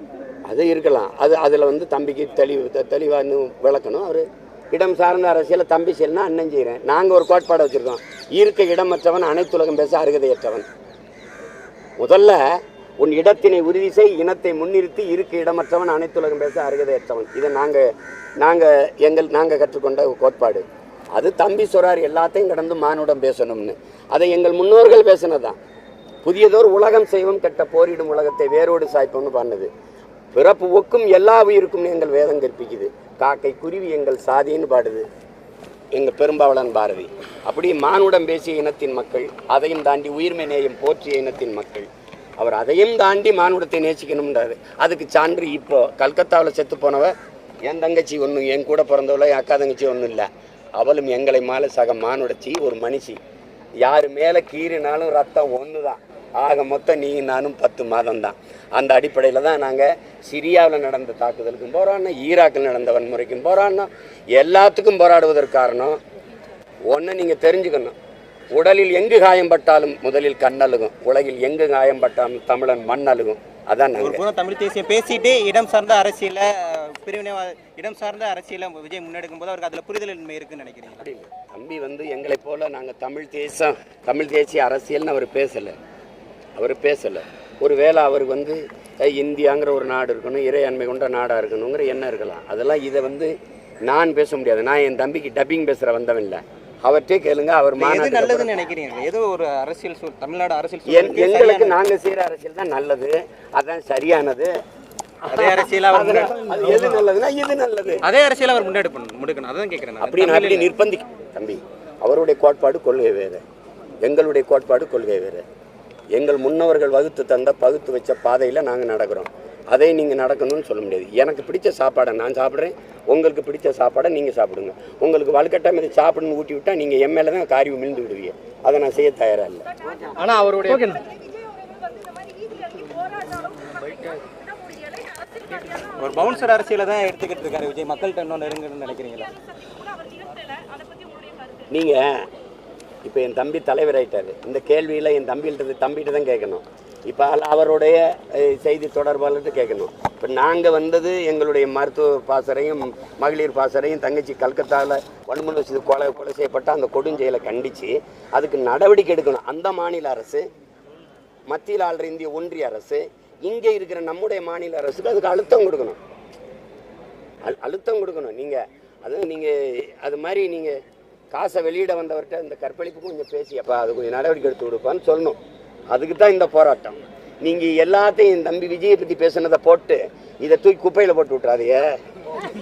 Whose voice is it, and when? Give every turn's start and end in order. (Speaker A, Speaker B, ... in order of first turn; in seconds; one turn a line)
Speaker A: 0.5-10.7
Speaker A: 12.0-25.6
Speaker A: 26.2-29.7
Speaker A: 30.3-35.0
Speaker A: 35.9-41.9
Speaker A: 42.4-47.1
Speaker A: 47.6-53.2
Speaker A: 53.8-66.0
Speaker A: 66.9-67.9
Speaker A: 68.5-74.2
Speaker B: 74.0-81.0
Speaker A: 80.9-85.7
Speaker A: 86.6-93.3
Speaker A: 93.9-98.5
Speaker B: 97.8-101.8
Speaker A: 100.9-104.5
Speaker A: 105.2-108.0
Speaker B: 105.3-106.9
Speaker B: 108.0-110.7
Speaker A: 110.0-113.4
Speaker A: 114.0-115.4
Speaker A: 116.1-129.7
Speaker C: 130.2-135.1
Speaker B: 135.7-139.3
Speaker A: 141.7-142.2
Speaker A: 143.0-160.4
Speaker A: 161.5-166.0
Speaker A: 167.4-170.8
Speaker A: 171.3-175.4
Speaker A: 175.9-181.8